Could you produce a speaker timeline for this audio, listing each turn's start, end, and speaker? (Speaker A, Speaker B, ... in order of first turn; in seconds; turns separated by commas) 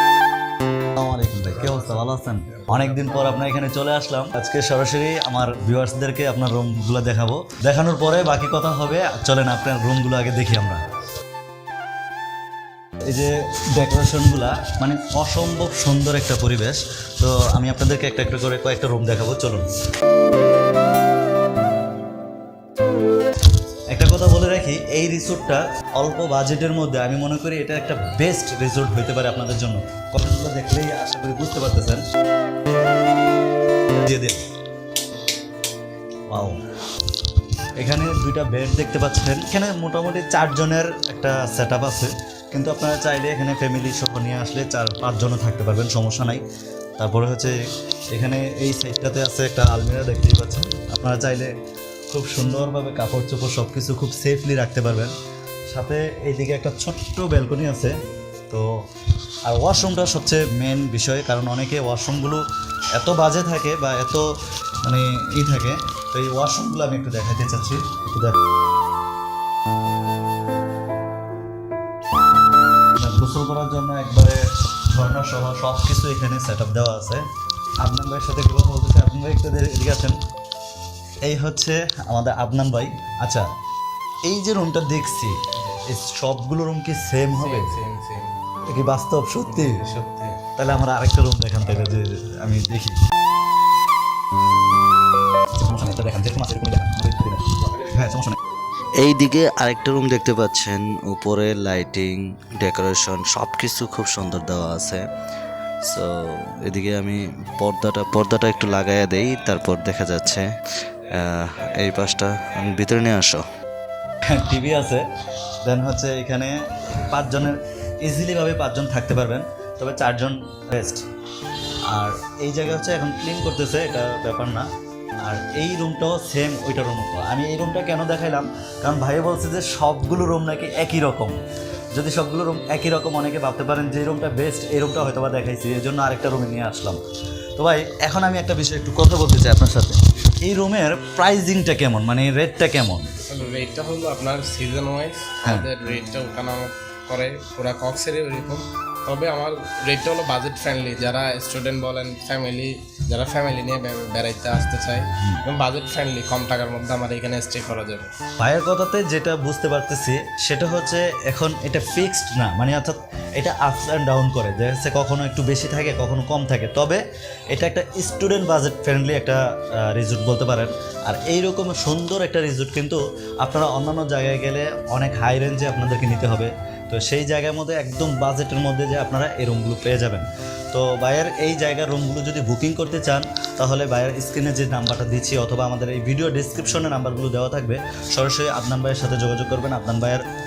Speaker A: 0.9-10.8, Speaker B: 1.6-3.2, Speaker A: 13.1-19.7, Speaker A: 23.9-32.0, Speaker A: 33.9-34.5, Speaker A: 36.3-36.6, Speaker A: 37.8-46.4, Speaker A: 47.0-47.6, Speaker A: 48.1-51.5, Speaker A: 52.1-55.1, Speaker A: 55.7-58.0, Speaker A: 59.5-62.4, Speaker A: 62.9-64.3, Speaker A: 64.8-68.4, Speaker A: 73.0-77.2, Speaker A: 77.8-80.2, Speaker A: 81.2-83.5, Speaker A: 84.2-87.8, Speaker B: 87.3-88.3, Speaker A: 88.7-89.8, Speaker B: 89.5-90.4, Speaker A: 90.6-93.0, Speaker A: 95.6-98.4, Speaker C: 99.0-105.1, Speaker C: 105.9-113.4, Speaker A: 114.2-115.0, Speaker A: 115.6-121.0, Speaker A: 121.9-124.7, Speaker A: 125.2-131.4, Speaker A: 131.9-137.0, Speaker A: 137.6-143.1, Speaker B: 143.3-158.1, Speaker A: 158.4-190.2